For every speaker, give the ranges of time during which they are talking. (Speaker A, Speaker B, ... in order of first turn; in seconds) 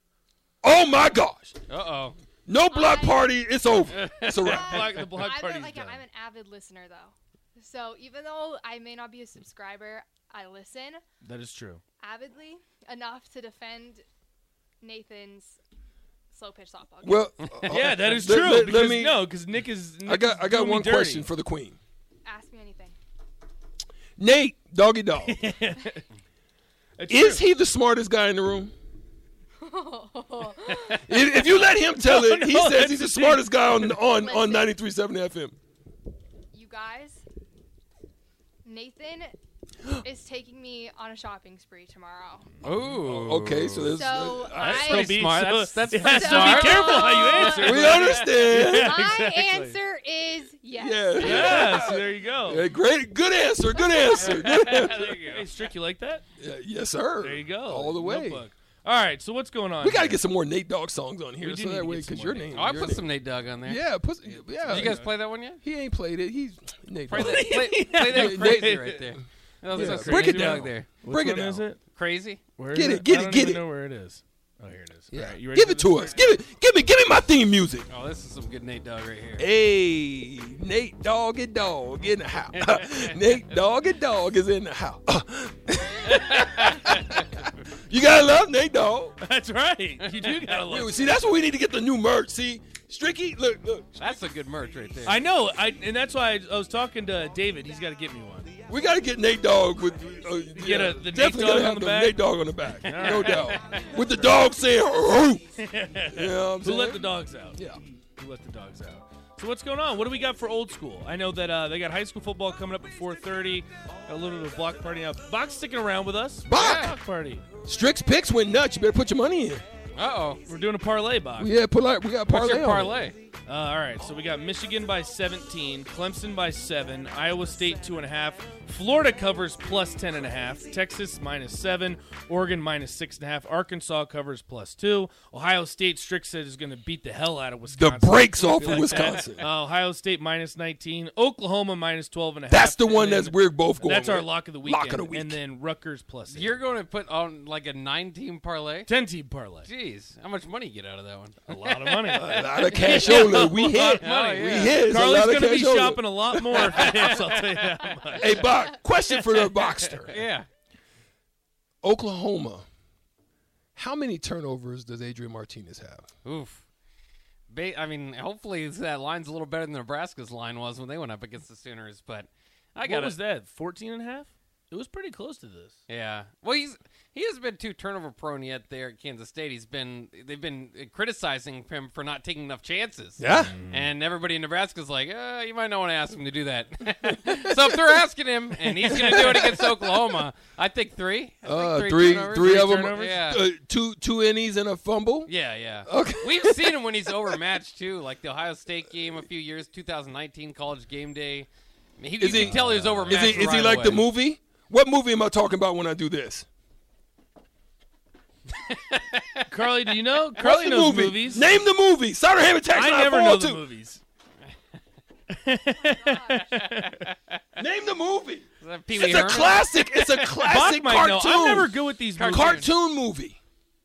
Speaker A: 0.6-1.6, 2.5-5.1, 17.0-19.3, 20.1-21.8, 24.2-25.4, 27.1-28.7, 31.1-35.5, 42.9-45.0, 47.5-49.0, 50.8-55.2, 56.4-58.5, 59.8-63.1, 63.6-69.2, 69.7-71.6, 72.7-73.6, 75.1-77.9, 79.4-89.2, 90.7-94.0, 98.7-105.4, 106.1-107.8, 116.5-116.9, 117.7-119.7, 121.4-123.1, 137.7-139.5, 142.5-145.4, 152.1-157.1, 158.2-160.2, 161.8-162.7, 163.8-166.1, 183.2-183.5, 188.8-190.0, 191.4-195.3, 195.8-197.4, 202.2-206.5, 210.4-213.6, 217.6-223.4
Speaker B: 1.7-2.2, 3.9-4.5, 42.6-44.0, 44.6-48.0, 54.2-55.5, 62.5-63.9, 64.7-65.6, 67.1-70.9, 71.9-72.4, 77.9-79.5, 82.5-83.2, 86.4-87.2, 90.0-90.6, 94.0-95.2, 102.9-103.8, 116.5-117.0, 119.9-120.4, 122.3-123.2, 138.8-139.1, 146.3-148.9, 149.6-151.4, 152.7-154.9, 156.8-157.4, 160.1-160.5, 166.2-166.6, 167.5-173.2, 175.9-193.5, 195.3-204.1, 208.7-209.4, 218.6-220.3, 222.2-222.7
Speaker C: 2.7-3.4, 4.3-11.0, 12.0-14.1, 14.8-15.6, 16.3-17.7, 22.2-23.0, 29.6-31.0, 34.1-34.7, 36.5-37.2, 38.6-39.4, 39.9-42.5, 43.9-45.2, 46.0-51.9, 53.7-54.5, 158.2-158.8, 215.8-216.6
Speaker D: 4.4-6.0, 11.2-11.8, 17.7-21.3, 25.3-26.0, 27.0-27.4, 30.8-31.2, 32.0-34.0, 44.6-49.8, 51.2-52.7, 54.9-56.2, 57.2-60.2, 61.4-62.8, 64.3-65.1, 67.1-69.1, 69.7-71.8, 72.6-76.3, 89.2-91.2, 95.0-98.5, 100.5-103.6, 105.6-107.7, 108.2-117.4, 120.5-121.5, 123.5-146.6, 148.9-149.7, 151.5-158.4, 172.8-175.8, 183.4-183.9, 192.3-193.2, 203.0-203.9, 209.5-211.5, 212.7-214.0, 215.3-217.0, 220.4-222.7